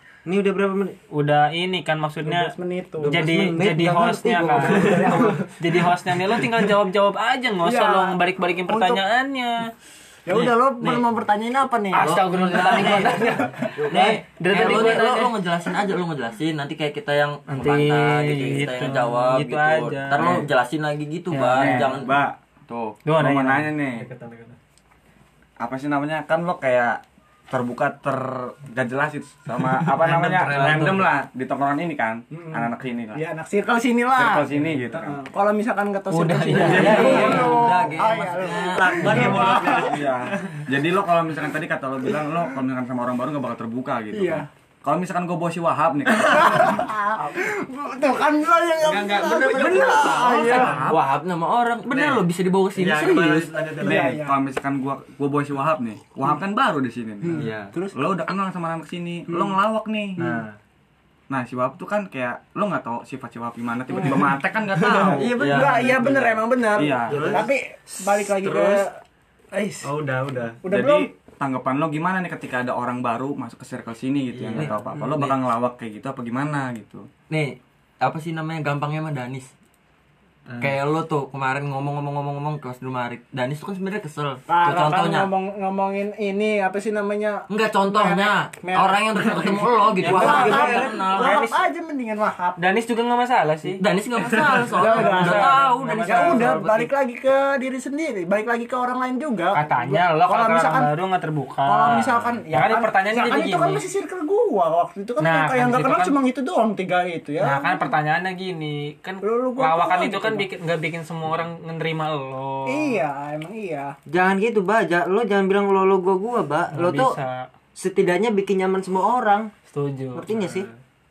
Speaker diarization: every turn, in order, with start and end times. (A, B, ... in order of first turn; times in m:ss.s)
0:00.2-0:01.0 A
0:01.1-0:02.5 B
0:02.2-0:03.2 C
0:03.0-0:05.5 A
0:03.0-0:09.7 B
0:04.7-0:05.4 C
0:07.6-0:09.0 C
0:10.2-0:13.7 C
0:10.3-0:11.0 D
0:11.9-0:15.3 B
0:12.0-0:13.2 D
0:13.7-0:22.2 D
0:17.5-0:20.5 B
0:21.3-0:22.0 B
0:21.5-0:22.4 E
0:22.7-0:22.9 D
0:23.0-0:23.7 B
0:23.1-0:24.1 E
0:23.9-0:24.6 F
0:25.6-0:33.2 E
0:29.8-0:31.1 F
0:30.0-0:31.0 D
0:32.3-0:40.0 C
0:34.2-0:35.2 E
0:36.1-0:37.6 B
0:36.6-0:39.5 D
0:36.8-0:37.6 F
0:38.4-0:40.6 F
0:39.6-0:46.8 E
0:44.1-0:44.5 C
0:46.1-0:50.8 C
0:48.9-0:51.0 B
0:49.5-0:53.6 D
0:50.3-0:51.0 F
0:51.9-0:52.2 F
0:52.8-0:54.2 F
0:53.8-0:54.4 C
0:53.8-1:00.3 E
0:57.3-0:58.0 C
0:57.3-0:57.7 D
1:00.2-1:00.5 F
1:01.3-1:05.9 E
1:04.8-1:06.4 D
1:05.1-1:08.9 C
1:05.4-1:06.0 F
1:06.7-1:07.4 E
1:07.1-1:07.5 F
1:08.2-1:08.9 F
1:09.5-1:09.9 C
1:09.8-1:10.6 F
1:10.6-1:11.1 C
1:10.7-1:17.1 E
1:14.4-1:14.8 F
1:14.4-1:15.3 D
1:17.3-1:19.5 D
1:20.5-1:20.8 F
1:20.6-1:25.3 D
1:24.5-1:32.6 C
1:27.5-1:31.4 D
1:30.0-1:31.6 B
1:32.6-1:33.8 B
1:33.8-1:36.9 D
1:34.2-1:34.7 F
1:34.4-1:36.8 B
1:34.7-1:40.9 C
1:39.5-1:43.8 B
1:41.6-1:47.9 C
1:45.2-1:46.2 B
1:47.4-1:53.0 B
1:49.2-1:50.5 C
1:52.6-1:53.9 C
1:54.1-1:57.2 A
1:56.7-1:57.5 B
1:57.7-1:59.5 A
1:59.7-2:00.2 B
2:00.1-2:00.7 A
2:00.3-2:00.8 F